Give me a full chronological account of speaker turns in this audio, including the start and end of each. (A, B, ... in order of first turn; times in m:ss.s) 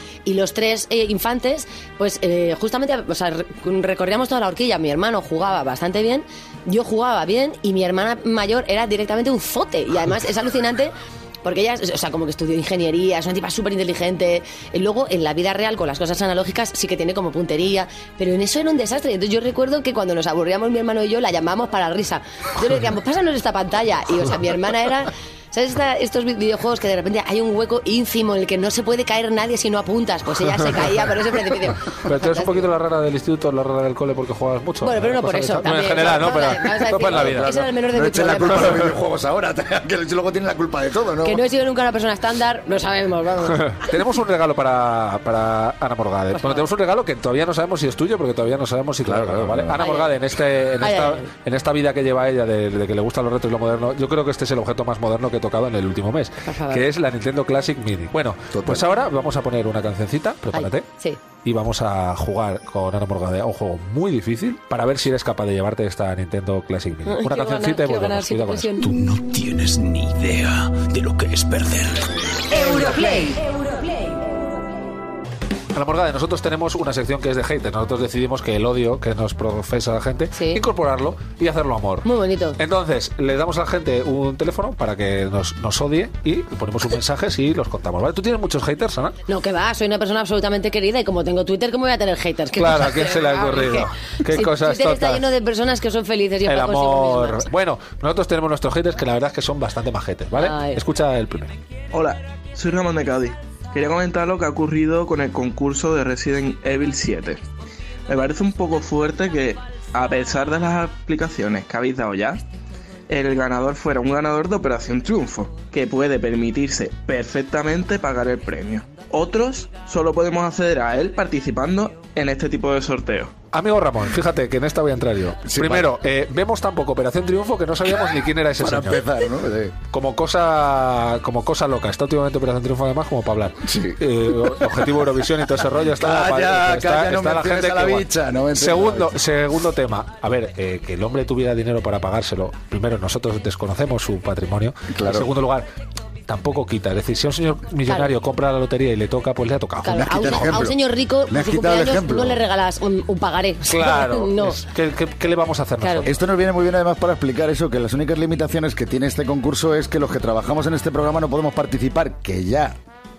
0:00.3-0:32.7 A
0:31.9-0:37.5 B
0:34.8-0:38.8 A
0:37.0-0:41.4 C
0:38.6-0:38.9 B
0:41.2-0:43.9 A
0:43.5-1:00.9 B
0:49.0-0:49.8 C
0:49.8-0:50.1 A
0:50.8-0:51.3 A
0:56.4-0:56.9 A
0:58.5-0:58.9 C
1:00.5-1:01.2 A
1:01.4-1:09.0 B
1:07.1-1:09.0 A
1:09.1-1:12.0 D
1:12.5-1:14.5 A
1:15.7-1:22.1 B
1:20.3-1:20.6 A
1:22.0-1:22.6 A
1:22.6-1:29.2 B
1:29.3-1:37.5 A
1:32.6-1:35.2 B
1:36.5-1:41.6 B
1:40.4-1:40.8 A
1:41.9-1:47.4 E
1:48.1-1:52.4 E
1:53.1-2:03.4 E
2:03.5-2:09.0 B
2:05.4-2:05.9 C
2:08.6-2:09.8 C
2:09.9-2:25.7 B
2:13.6-2:14.5 C
2:15.9-2:19.2 C
2:24.9-2:25.3 C
2:26.3-2:30.6 B
2:29.8-2:34.6 A
2:29.9-2:32.4 C
2:33.7-2:36.2 B
2:35.8-2:36.1 A
2:36.0-2:42.8 C